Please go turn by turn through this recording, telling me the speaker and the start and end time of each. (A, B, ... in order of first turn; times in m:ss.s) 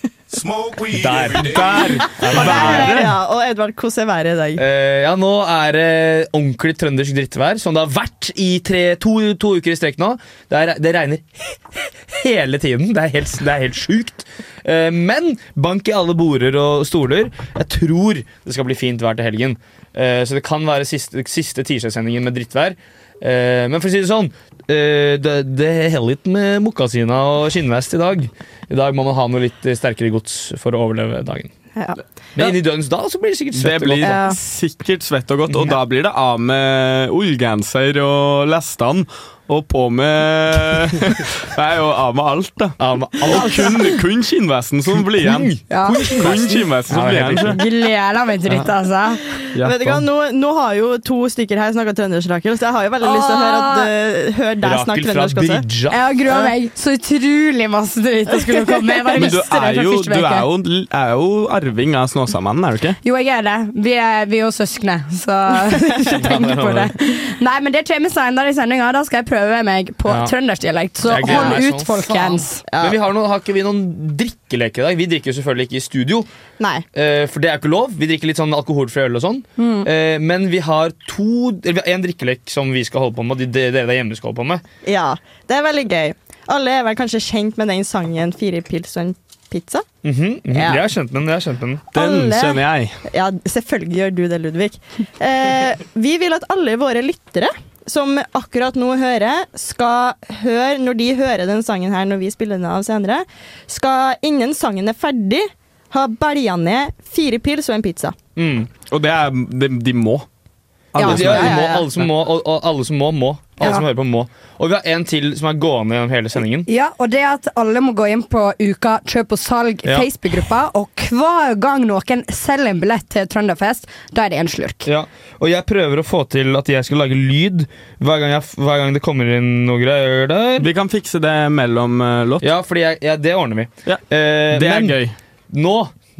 0:00.8-0:03.1 A
0:01.3-0:03.1 B
0:02.3-0:04.6 C
0:04.6-0:11.3 A
0:12.1-0:31.5 A
0:32.4-0:34.2 A
0:33.6-0:45.6 B
0:34.0-0:34.4 C
0:35.5-0:35.8 A
0:42.8-0:43.8 A
0:43.4-0:43.8 D
0:44.9-0:47.6 A
0:45.7-0:46.1 D
0:46.1-0:47.6 B
0:47.5-0:49.5 D
0:49.6-0:50.0 B
0:49.6-0:55.7 C
0:53.0-0:53.9 D
0:54.6-0:56.0 A
0:55.9-1:00.5 D
0:59.1-1:03.0 B
1:03.0-1:12.6 D
1:06.1-1:06.9 A
1:10.0-1:10.3 A
1:11.0-1:16.3 A
1:11.2-1:11.6 C
1:12.7-1:13.0 C
1:16.6-1:16.8 C
1:16.9-1:24.6 A
1:19.6-1:19.9 D
1:24.8-1:29.9 C
1:30.0-1:31.9 A
1:30.5-1:30.8 C
1:31.9-1:33.0 B
1:31.9-1:48.2 C
1:48.4-1:48.7 A
1:48.9-1:50.3 B
1:50.9-1:51.6 B
1:51.0-1:51.9 C
1:51.0-1:56.7 A
1:56.7-2:04.9 D
2:04.8-2:10.7 A
2:10.6-2:12.5 B
2:12.4-2:15.0 A
2:13.9-2:15.2 B
2:15.5-2:16.0 A